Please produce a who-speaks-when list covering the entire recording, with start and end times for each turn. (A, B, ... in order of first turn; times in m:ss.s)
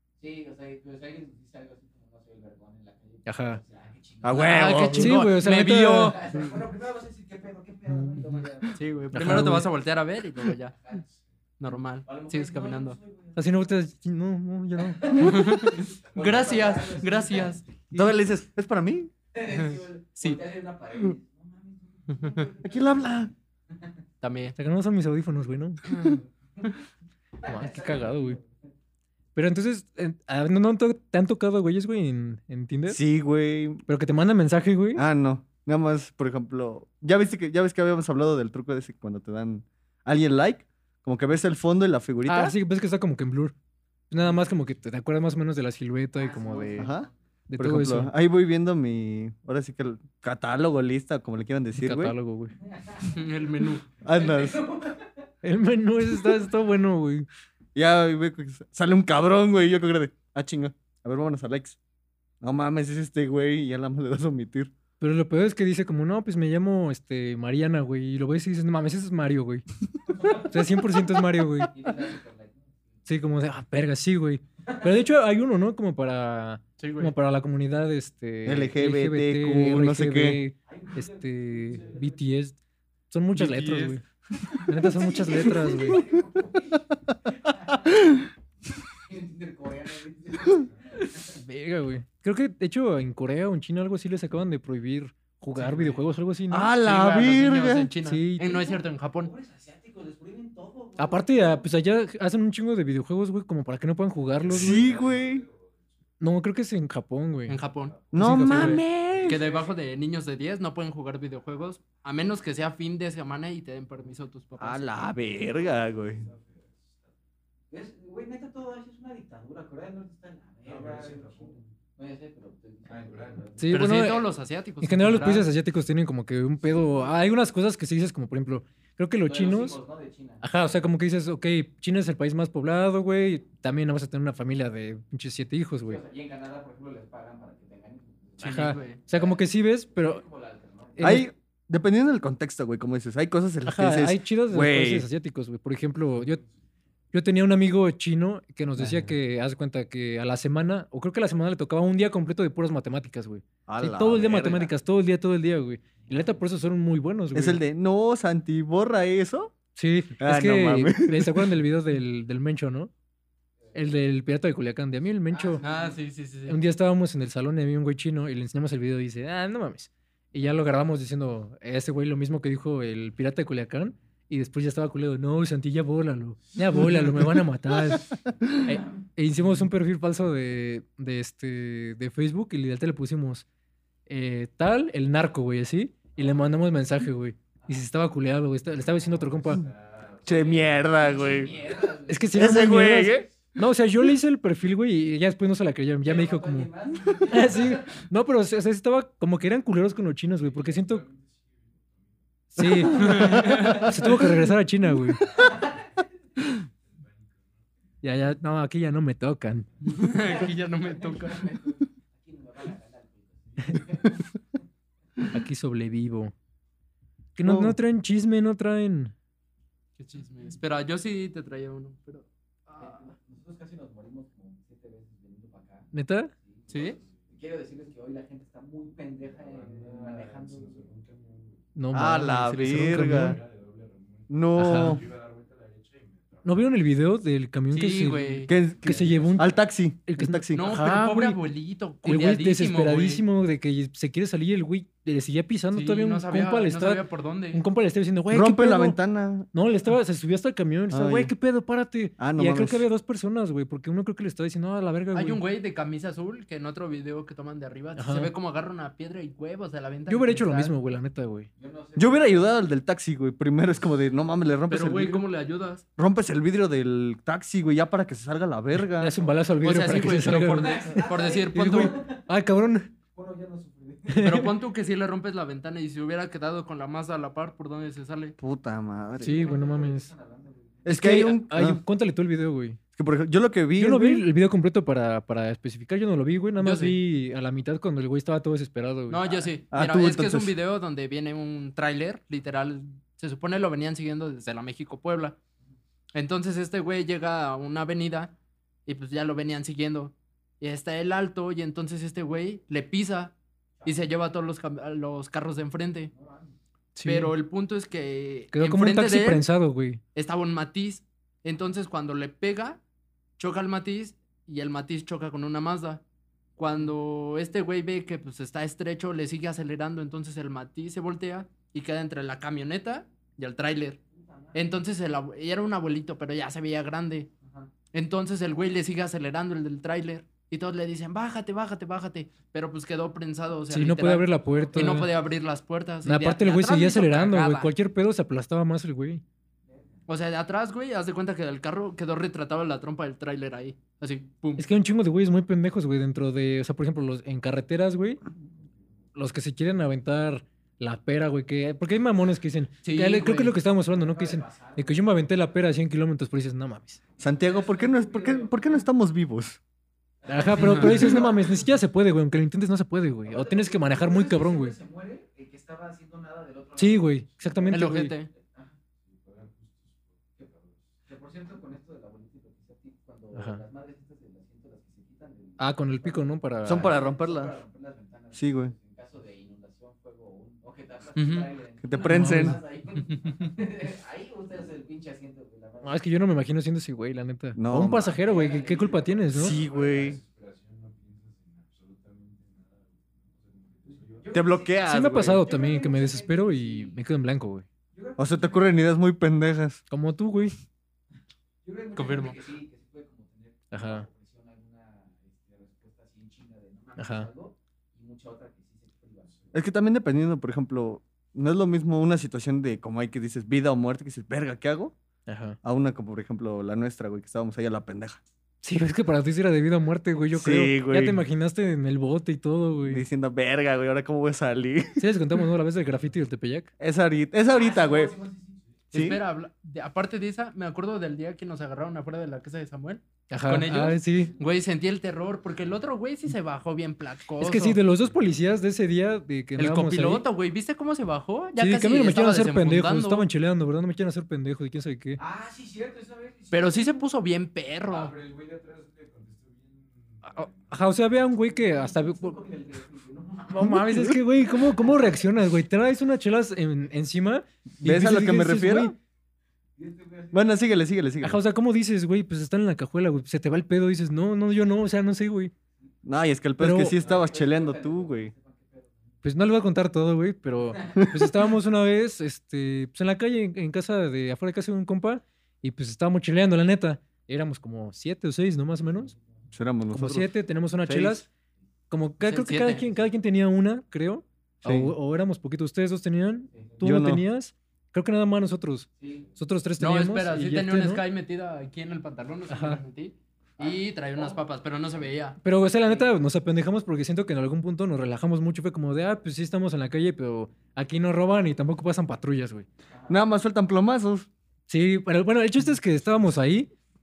0:00.2-0:04.8 A
0:03.2-0:03.6 B
0:04.2-0:05.2 C
0:04.3-0:06.3 D
0:04.9-0:06.2 B
0:06.0-0:09.4 A
0:07.9-0:08.2 B
0:08.7-0:10.7 D
0:09.1-0:09.7 B
0:10.8-0:11.0 A
0:11.6-0:13.0 D
0:12.0-0:13.8 A
0:13.3-0:15.2 B
0:14.8-0:17.6 A
0:15.2-0:17.6 D
0:17.9-0:19.1 C
0:19.3-0:23.9 A
0:19.5-0:20.4 D
0:22.1-0:22.4 D
0:22.6-0:23.3 C
0:24.2-0:24.6 D
0:24.6-0:25.8 B
0:25.9-0:26.1 D
0:26.0-0:26.8 A
0:27.4-0:28.5 A
0:27.4-0:28.4 B
0:29.3-0:33.0 B
0:32.9-0:33.8 C
0:33.9-0:35.0 B
0:34.9-0:42.6 C
0:42.2-0:43.5 B
0:44.1-0:46.9 B
0:46.1-0:47.1 A
0:46.7-0:52.1 C
0:47.5-0:48.1 B
0:51.8-0:52.6 B
0:52.7-0:55.2 A
0:53.0-0:53.9 D
0:54.0-0:54.6 C
0:55.4-0:57.3 B
0:57.7-1:01.8 C
1:02.4-1:04.7 C
1:05.0-1:09.6 B
1:10.2-1:10.5 A
1:10.2-1:11.7 B
1:11.7-1:13.0 A
1:13.0-1:22.6 B
1:16.8-1:17.1 D
1:18.4-1:20.4 C
1:20.7-1:22.2 A
1:23.1-1:24.0 B
1:23.3-1:24.0 D
1:24.6-1:26.0 B
1:24.8-1:28.2 A
1:29.0-1:31.4 A
1:31.3-1:36.7 B
1:35.5-1:36.0 D
1:36.5-1:37.9 C
1:36.7-1:39.3 D
1:38.0-1:38.6 B
1:38.4-1:41.6 A
1:41.0-1:45.0 B
1:44.4-1:46.0 E
1:44.5-1:45.4 C
1:46.2-1:47.6 B
1:47.5-1:55.1 D
1:47.8-1:49.7 E
1:48.1-1:49.4 C
1:48.1-1:48.8 B
1:54.6-1:56.2 C
1:55.3-1:57.1 E
1:57.7-2:04.1 A
2:00.6-2:01.7 E
2:02.8-2:03.5 E
2:03.6-2:04.2 B
2:03.7-2:05.5 D
2:04.8-2:09.8 B
2:06.6-2:07.2 A
2:09.2-2:10.4 A
2:10.4-2:16.0 B
2:15.8-2:21.2 A
2:18.4-2:19.0 D
2:18.4-2:20.2 B
2:21.0-2:21.3 B
2:21.0-2:25.0 C
2:23.6-2:26.4 B
2:26.0-2:26.5 E
2:27.1-2:37.6 B
2:28.8-2:29.1 C
2:33.7-2:34.7 C
2:37.3-2:39.5 C
2:39.8-2:42.9 B
2:40.2-2:41.5 C
2:43.7-2:45.6 B
2:45.3-2:46.0 A
2:45.6-2:46.6 D
2:46.5-3:03.4 B
2:57.9-2:58.5 C
3:04.1-3:09.7 B
3:08.7-3:11.8 E
3:10.2-3:11.5 C
3:11.0-3:12.8 A
3:12.1-3:16.7 B
3:12.3-3:13.2 C
3:16.0-3:17.9 A
3:17.3-3:21.0 B
3:20.4-3:22.6 E
3:22.5-3:25.2 B
3:22.6-3:23.7 C
3:22.9-3:23.9 D
3:23.4-3:23.9 A
3:25.2-3:25.8 E
3:25.4-3:25.8 A
3:26.5-3:27.6 E
3:28.0-3:29.7 B
3:29.8-3:31.5 D
3:30.2-3:34.6 A
3:35.3-3:36.3 B
3:37.4-3:39.1 B
3:37.4-3:37.8 C
3:40.0-3:43.0 D
3:42.8-3:50.8 A
3:45.9-3:46.3 B
3:46.7-3:47.0 D
3:49.3-3:51.8 E
3:51.8-3:53.4 B
3:51.9-3:53.4 C
3:52.9-3:56.8 E
3:54.3-3:55.0 C
3:54.6-3:55.0 B
3:56.4-3:59.6 B
3:57.7-3:58.5 D
3:58.5-4:00.7 C
3:58.8-3:59.6 E
4:00.1-4:01.4 B
4:00.5-4:03.2 D
4:02.0-4:09.0 B
4:05.7-4:07.6 D
4:08.3-4:09.5 C
4:09.5-4:15.4 B
4:10.9-4:11.3 C
4:12.2-4:12.8 C
4:15.1-4:20.7 D
4:18.0-4:18.3 B
4:20.1-4:21.5 B
4:21.6-4:22.5 A
4:22.0-4:25.3 C
4:24.7-4:25.8 D
4:26.0-4:29.2 C
4:28.9-4:32.9 B
4:29.6-4:31.9 D
4:29.9-4:32.2 A
4:33.1-4:34.5 A
4:34.1-4:34.5 B
4:34.2-4:38.4 D
4:38.4-4:39.4 C
4:39.2-4:40.1 B
4:39.2-4:40.8 A
4:40.8-4:41.8 C
4:40.9-4:42.8 B
4:42.9-4:44.2 C
4:43.8-4:49.2 B
4:46.6-4:47.0 D
4:49.1-4:55.4 D
4:49.2-4:49.5 A
4:49.7-4:50.5 C
4:56.1-4:58.3 D
4:58.8-5:03.3 D
5:03.8-5:04.0 A
5:03.8-5:06.1 D
5:06.1-5:06.6 A
5:06.9-5:07.3 B
5:07.0-5:09.4 D
5:08.5-5:10.0 B
5:10.1-5:12.8 D
5:13.4-5:16.0 D
5:16.6-5:24.0 D
5:24.1-5:24.6 A
5:24.5-5:27.3 D
5:27.4-5:27.7 A
5:27.9-5:37.7 D
5:33.7-5:35.1 B
5:34.5-5:35.0 A
5:36.0-5:39.2 B
5:39.7-5:40.0 A
5:40.1-5:44.6 D
5:44.6-5:48.2 B
5:49.1-5:57.0 B
5:52.8-5:53.5 D
5:53.7-5:55.0 A
5:57.2-5:59.6 C
5:57.2-5:58.8 A
6:00.2-6:01.6 A
6:00.3-6:04.8 B
6:00.5-6:01.2 D
6:03.2-6:08.8 A
6:06.8-6:08.2 B
6:07.7-6:08.3 D
6:09.0-6:11.0 E
6:11.0-6:26.0 A
6:13.3-6:13.6 B
6:15.6-6:17.0 B
6:16.6-6:17.5 C
6:18.3-6:18.7 C
6:21.2-6:21.5 D
6:21.8-6:22.6 C
6:21.9-6:22.6 B
6:25.8-6:29.6 B
6:27.5-6:28.2 C
6:27.9-6:29.6 A
6:29.3-6:34.4 E
6:29.3-6:30.2 C
6:33.9-6:37.0 A
6:34.3-6:35.5 C
6:34.8-6:37.6 B
6:37.9-6:38.9 A
6:38.2-6:39.8 C
6:39.9-6:40.6 B
6:41.6-6:49.5 A
6:41.9-6:42.4 D
6:43.7-6:44.0 B
6:47.0-6:47.3 B
6:49.5-6:54.9 C
6:55.2-6:55.6 B
6:55.6-6:58.2 C
6:58.6-7:03.0 B
7:00.3-7:01.2 C
7:02.8-7:05.0 C
7:05.0-7:06.7 B
7:05.8-7:06.2 E
7:06.8-7:08.2 C
7:07.5-7:08.6 A
7:08.9-7:09.2 C
7:08.9-7:17.8 D
7:13.3-7:14.3 B
7:17.4-7:20.2 B
7:17.9-7:18.7 E
7:19.6-7:23.2 D
7:21.6-7:25.2 B
7:25.2-7:27.0 A
7:26.5-7:28.1 D
7:27.9-7:31.3 E
7:30.2-7:32.4 B
7:31.5-7:34.1 A
7:33.5-7:38.9 B
7:33.6-7:34.2 C
7:37.8-7:38.9 C
7:39.8-7:40.6 A
7:40.3-7:41.4 C
7:41.2-7:45.5 B
7:46.0-7:48.3 C
7:46.6-7:47.0 B
7:46.9-7:49.1 A
7:49.2-7:59.1 B
7:59.5-8:00.3 C
7:59.9-8:01.3 B
8:00.8-8:01.2 C
8:01.9-8:11.0 B
8:02.2-8:02.8 D
8:04.6-8:04.9 C
8:06.8-8:07.2 C
8:09.0-8:09.3 A
8:09.8-8:15.4 D
8:12.5-8:12.8 B
8:13.6-8:14.4 A
8:15.4-8:22.7 B
8:15.8-8:16.1 A
8:23.1-8:24.3 C
8:24.7-8:26.7 B